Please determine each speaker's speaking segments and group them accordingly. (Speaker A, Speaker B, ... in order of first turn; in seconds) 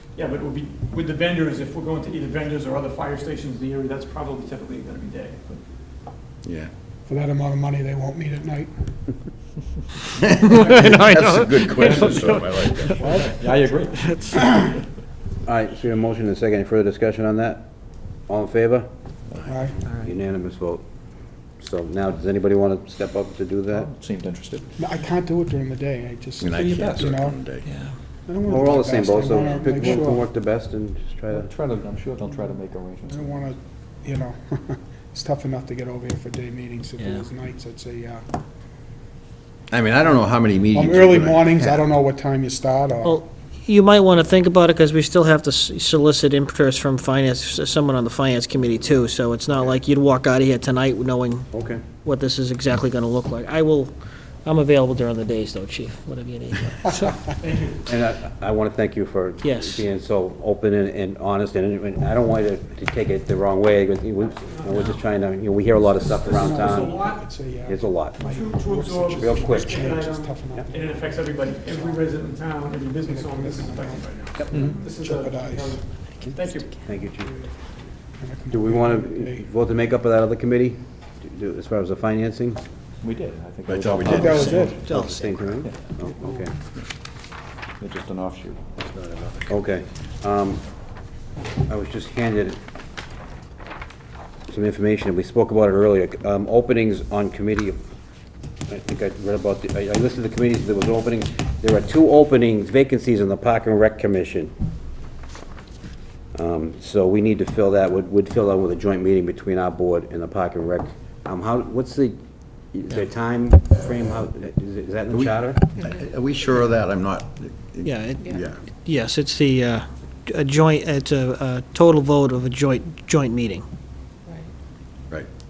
Speaker A: 0.1-5.5, 57.4-57.8, 66.1-67.3, 68.2-76.8
Speaker B: 6.4-6.7, 10.2-13.2, 26.4-27.7, 39.7-41.9, 83.7-84.7, 115.1-118.6
Speaker C: 7.1-8.7, 19.5-19.8, 24.8-27.4, 28.3-30.2, 33.1-38.2, 40.7-43.2, 66.4-71.9, 73.1-75.6, 77.2-77.5, 78.2-79.5, 84.2-84.8
Speaker D: 10.6-12.3, 27.6-27.9, 37.0-37.3, 43.0-51.5, 52.0-53.9, 54.4-57.2, 59.4-59.8, 84.1-85.6, 117.8-123.6
Speaker E: 11.7-12.4, 13.0-14.7, 23.7-24.7, 29.7-30.0, 31.3-33.4, 83.0-85.0, 85.6-85.9, 87.8-89.5
Speaker F: 15.4-17.7, 18.3-18.9, 19.9-20.8, 21.6-23.9, 28.5-31.5, 51.5-51.8, 57.8-67.1, 67.7-68.2, 69.1-70.0, 76.8-77.3, 78.5-82.6, 84.8-86.5, 89.5-90.6, 91.6-92.6, 94.5-97.8, 98.7-104.5, 106.3-112.2, 112.7-115.6